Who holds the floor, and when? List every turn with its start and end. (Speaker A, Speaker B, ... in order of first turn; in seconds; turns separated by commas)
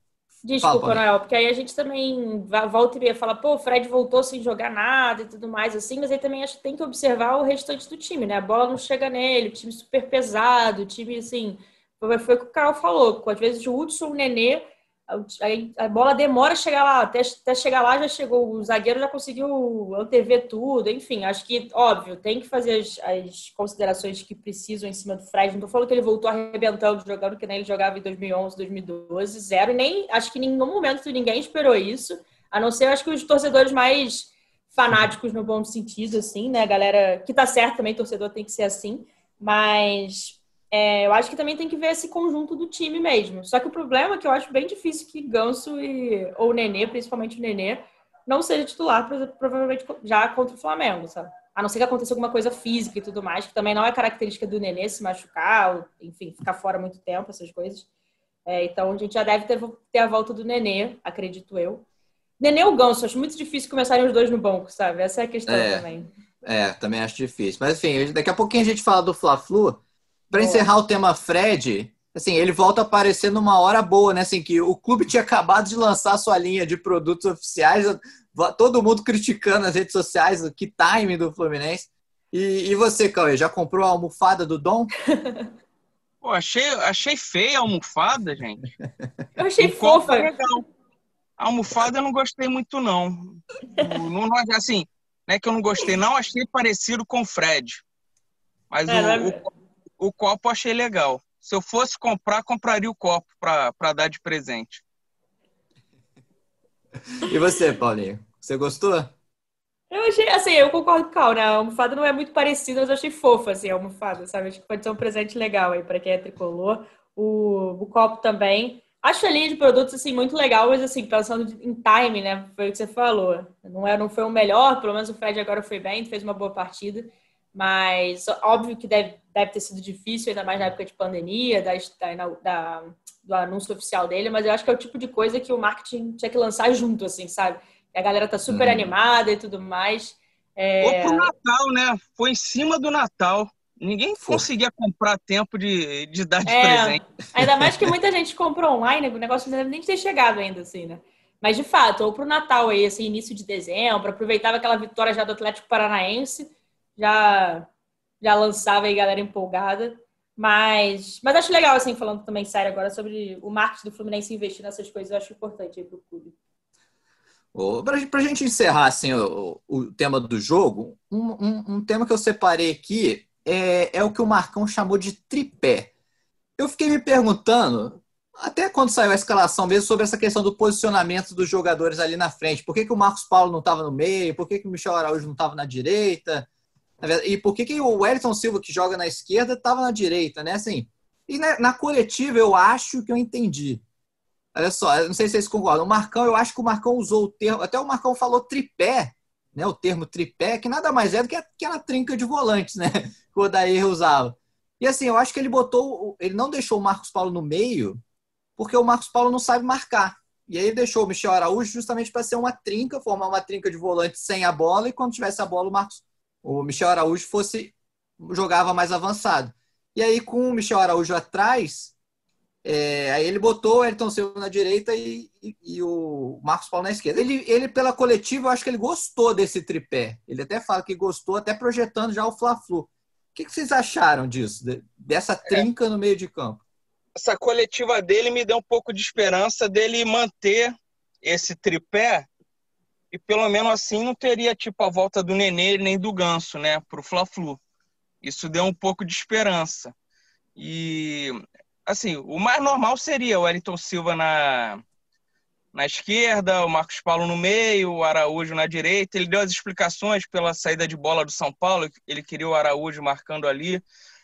Speaker A: 0.4-57.9, Speaker B: 0.6-1.0, Speaker A: 58.5-61.9, Speaker A: 62.4-66.1, Speaker B: 65.5-65.8, Speaker B: 66.4-84.9, Speaker A: 70.3-70.7, Speaker A: 85.1-85.5, Speaker C: 86.2-88.7, Speaker A: 89.4-90.3, Speaker C: 89.6-90.6, Speaker C: 91.4-97.8, Speaker C: 98.7-99.4, Speaker A: 98.9-99.4, Speaker C: 100.0-104.8, Speaker B: 107.2-109.1, Speaker A: 109.9-141.3, Speaker B: 138.5-138.9, Speaker C: 140.8-147.1, Speaker B: 144.2-144.5, Speaker A: 146.5-157.7, Speaker A: 158.2-166.4, Speaker B: 167.5-175.9, Speaker B: 176.6-186.5, Speaker B: 187.0-193.8, Speaker B: 194.5-208.0, Speaker B: 208.6-221.9, Speaker B: 222.6-236.6, Speaker C: 237.2-242.3, Speaker C: 243.1-247.6, Speaker C: 248.2-249.9, Speaker C: 250.6-254.8, Speaker C: 255.7-263.8